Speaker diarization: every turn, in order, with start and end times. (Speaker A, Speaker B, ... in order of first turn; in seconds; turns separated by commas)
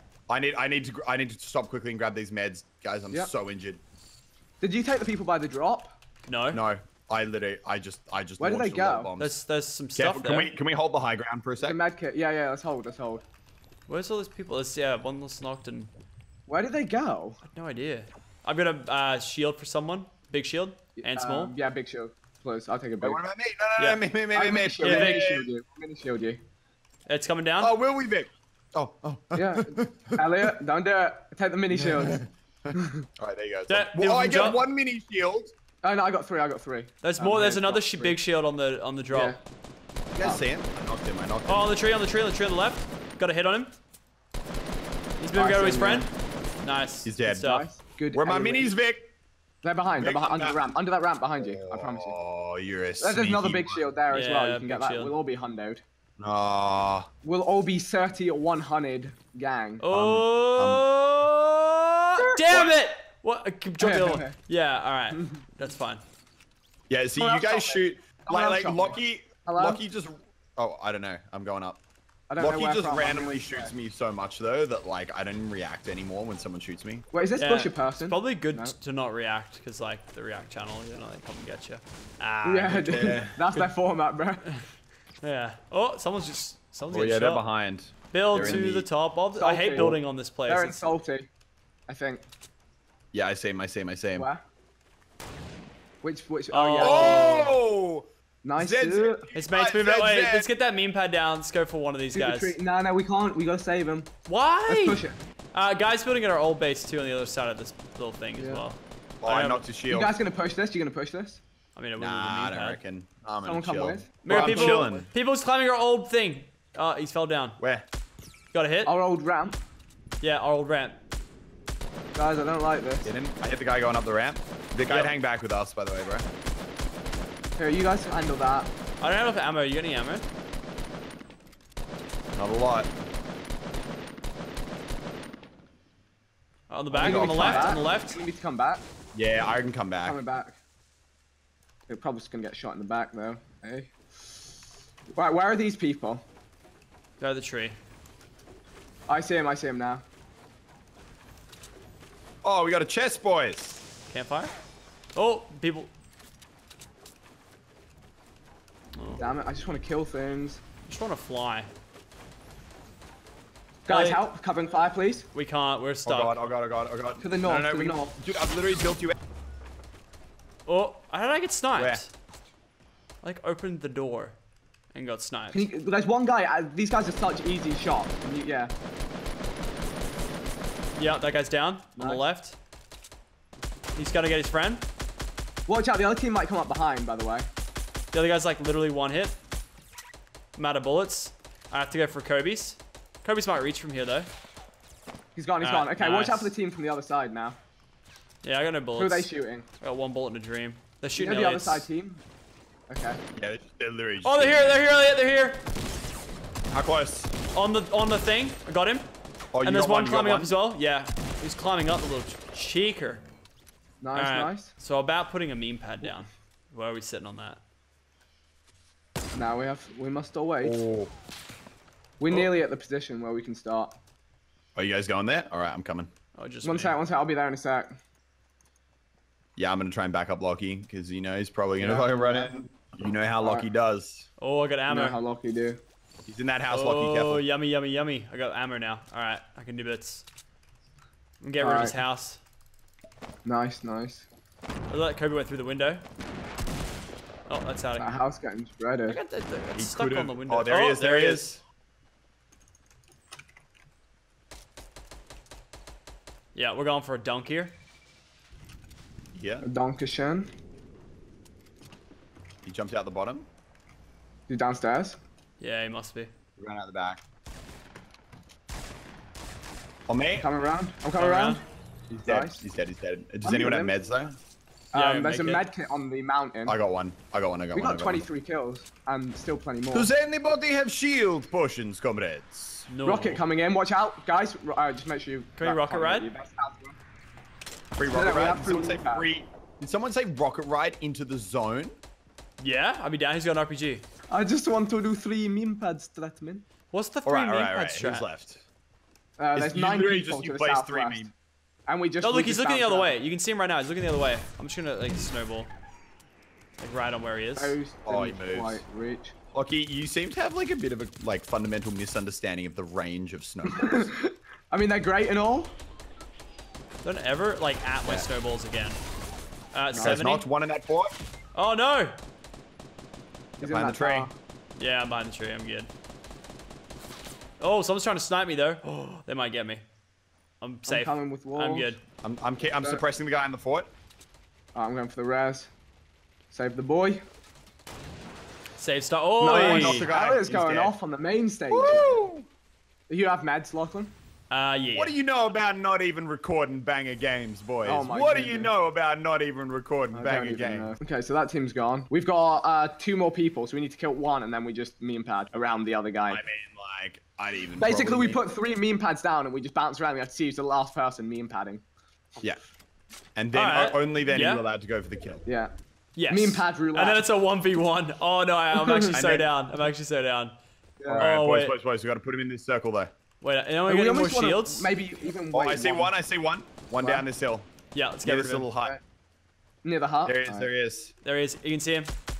Speaker A: 0.3-3.8, Speaker B: 4.6-6.0, Speaker C: 6.2-6.6, Speaker A: 6.5-9.4, Speaker B: 8.4-9.1, Speaker C: 9.2-10.5, Speaker A: 9.9-11.8, Speaker B: 11.6-13.2, Speaker C: 13.9-15.9, Speaker B: 16.5-17.4, Speaker C: 17.4-21.5, Speaker B: 21.0-23.2, Speaker A: 23.0-25.5, Speaker B: 24.3-26.4, Speaker C: 24.8-25.2, Speaker C: 27.1-27.7, Speaker A: 27.6-30.5, Speaker B: 29.3-32.2, Speaker A: 31.7-35.5, Speaker B: 32.7-33.0, Speaker C: 33.7-34.6, Speaker B: 35.8-38.2, Speaker C: 37.0-39.4, Speaker B: 39.1-39.4, Speaker A: 40.1-41.7, Speaker C: 41.5-43.7, Speaker C: 45.2-46.1, Speaker B: 45.3-46.1, Speaker C: 46.6-47.6, Speaker A: 47.0-47.5, Speaker B: 47.3-48.7, Speaker A: 48.1-49.1, Speaker B: 49.6-52.2, Speaker A: 50.0-50.7, Speaker A: 51.4-53.8, Speaker B: 53.0-55.8, Speaker C: 54.1-55.1, Speaker A: 56.2-57.1, Speaker B: 57.2-59.8, Speaker C: 59.8-66.0, Speaker A: 59.9-60.8, Speaker A: 62.5-62.8, Speaker B: 63.8-64.3, Speaker B: 65.1-65.4, Speaker A: 66.9-71.8, Speaker B: 67.2-69.8, Speaker B: 72.3-73.7, Speaker A: 72.4-77.0, Speaker B: 77.1-78.7, Speaker C: 77.4-83.7, Speaker B: 82.4-84.5, Speaker A: 82.9-83.4, Speaker C: 85.2-87.4, Speaker A: 86.9-88.9, Speaker C: 88.1-90.8, Speaker B: 88.3-88.6, Speaker B: 89.3-91.3, Speaker B: 91.9-92.2, Speaker A: 93.1-94.3, Speaker B: 94.2-94.4, Speaker B: 96.0-97.5, Speaker C: 96.5-97.5, Speaker A: 96.8-100.5, Speaker B: 98.4-99.3, Speaker C: 99.3-102.5, Speaker B: 102.1-104.1, Speaker C: 104.3-105.0, Speaker B: 104.7-105.2, Speaker C: 105.5-109.7, Speaker B: 108.4-108.6, Speaker A: 109.2-110.2, Speaker B: 109.9-111.4, Speaker C: 111.7-112.8, Speaker A: 112.0-115.1, Speaker B: 113.4-115.1, Speaker C: 114.2-117.6, Speaker A: 117.6-117.8, Speaker C: 118.5-118.9, Speaker B: 118.8-119.6, Speaker C: 120.2-121.0, Speaker B: 122.1-123.1, Speaker A: 123.0-126.2, Speaker B: 127.6-128.7, Speaker C: 129.0-130.2, Speaker A: 132.3-132.9, Speaker C: 136.7-138.2, Speaker A: 136.9-137.8, Speaker B: 137.0-138.8, Speaker A: 139.1-140.2, Speaker B: 140.0-140.6, Speaker B: 141.9-144.5, Speaker B: 145.1-146.2, Speaker C: 147.2-147.8, Speaker B: 149.1-150.0, Speaker A: 152.4-153.8, Speaker C: 154.1-154.5, Speaker C: 155.1-155.9, Speaker C: 158.9-159.2, Speaker B: 159.2-160.6, Speaker C: 160.8-161.7, Speaker B: 163.9-165.3, Speaker C: 163.9-164.2, Speaker C: 165.3-166.3, Speaker A: 166.0-169.2, Speaker B: 167.2-168.1, Speaker C: 170.7-172.1, Speaker A: 171.8-172.0, Speaker C: 173.2-174.3, Speaker C: 174.9-175.7, Speaker B: 175.5-178.7, Speaker C: 180.9-182.6, Speaker C: 183.9-184.8, Speaker B: 185.7-187.5, Speaker C: 188.1-189.3, Speaker C: 190.6-194.3, Speaker B: 195.3-197.6, Speaker C: 195.6-196.5, Speaker C: 198.4-199.3, Speaker B: 199.0-199.7, Speaker C: 199.8-201.8, Speaker B: 201.2-202.2, Speaker B: 202.9-203.2, Speaker A: 203.3-204.8, Speaker C: 204.2-205.6, Speaker A: 206.7-207.3, Speaker C: 207.5-209.1, Speaker A: 209.5-210.5, Speaker C: 209.6-213.2, Speaker B: 214.0-214.7, Speaker C: 214.1-217.6, Speaker B: 219.3-220.8, Speaker A: 220.6-221.1, Speaker B: 222.2-223.9, Speaker A: 224.7-226.1, Speaker C: 226.3-227.0, Speaker B: 226.6-228.0, Speaker A: 229.6-234.3, Speaker B: 231.8-232.5, Speaker B: 233.4-233.7, Speaker C: 234.4-235.2, Speaker B: 234.9-235.8, Speaker A: 236.2-237.4, Speaker C: 236.7-240.2, Speaker C: 241.4-242.4, Speaker B: 241.6-241.9, Speaker B: 243.4-244.2, Speaker C: 244.9-246.0, Speaker C: 247.5-248.1, Speaker B: 248.0-249.2, Speaker C: 249.1-251.6, Speaker A: 249.7-251.4, Speaker C: 256.5-257.7, Speaker A: 259.3-259.6, Speaker B: 259.6-260.5, Speaker A: 262.6-263.5, Speaker B: 264.5-265.2, Speaker C: 265.6-266.3, Speaker A: 266.6-267.2, Speaker A: 270.1-270.5, Speaker B: 270.4-271.6, Speaker C: 271.2-271.6, Speaker A: 272.1-274.4, Speaker B: 272.2-272.6, Speaker B: 273.4-273.9, Speaker B: 274.9-276.8, Speaker C: 274.9-275.6, Speaker A: 276.6-278.2, Speaker B: 277.7-280.1, Speaker A: 279.9-282.9, Speaker C: 282.9-283.4, Speaker B: 283.0-286.9, Speaker C: 285.6-286.3, Speaker A: 288.0-292.0, Speaker B: 288.1-289.3, Speaker C: 292.6-294.0, Speaker B: 294.3-296.6, Speaker C: 296.9-298.2, Speaker A: 297.2-298.6, Speaker B: 299.4-301.3, Speaker A: 299.5-301.3, Speaker B: 301.9-303.1, Speaker C: 302.2-305.7, Speaker C: 306.8-307.8, Speaker B: 307.6-309.3, Speaker A: 308.0-308.8, Speaker A: 309.5-314.1, Speaker B: 313.6-315.7, Speaker C: 317.0-319.0, Speaker C: 319.7-320.4, Speaker B: 319.9-320.4, Speaker A: 320.0-321.1, Speaker C: 321.5-322.2, Speaker A: 323.6-324.3, Speaker B: 323.6-324.3, Speaker C: 324.8-325.9, Speaker C: 327.6-329.8, Speaker C: 330.6-332.0, Speaker B: 330.9-331.9, Speaker A: 332.2-333.9, Speaker B: 334.7-335.7, Speaker B: 336.5-337.2, Speaker C: 338.8-340.1, Speaker B: 339.4-342.2, Speaker A: 339.4-340.9, Speaker A: 341.7-342.5, Speaker B: 343.1-344.1, Speaker C: 344.5-345.1, Speaker A: 344.9-350.9, Speaker B: 347.8-348.7, Speaker B: 350.1-356.4, Speaker A: 356.3-358.4, Speaker B: 357.8-361.8, Speaker A: 363.4-365.4, Speaker C: 363.5-364.6, Speaker B: 365.4-365.7, Speaker C: 366.1-370.5, Speaker B: 366.3-367.2, Speaker B: 368.7-369.2, Speaker A: 369.1-369.5, Speaker B: 371.0-371.3, Speaker A: 371.1-373.1, Speaker C: 371.1-371.7, Speaker C: 373.4-374.9, Speaker B: 373.9-376.1, Speaker A: 375.5-377.7, Speaker B: 377.0-377.2, Speaker C: 377.9-378.7, Speaker A: 378.2-379.0, Speaker B: 379.8-380.7, Speaker A: 380.2-381.1, Speaker C: 381.2-382.1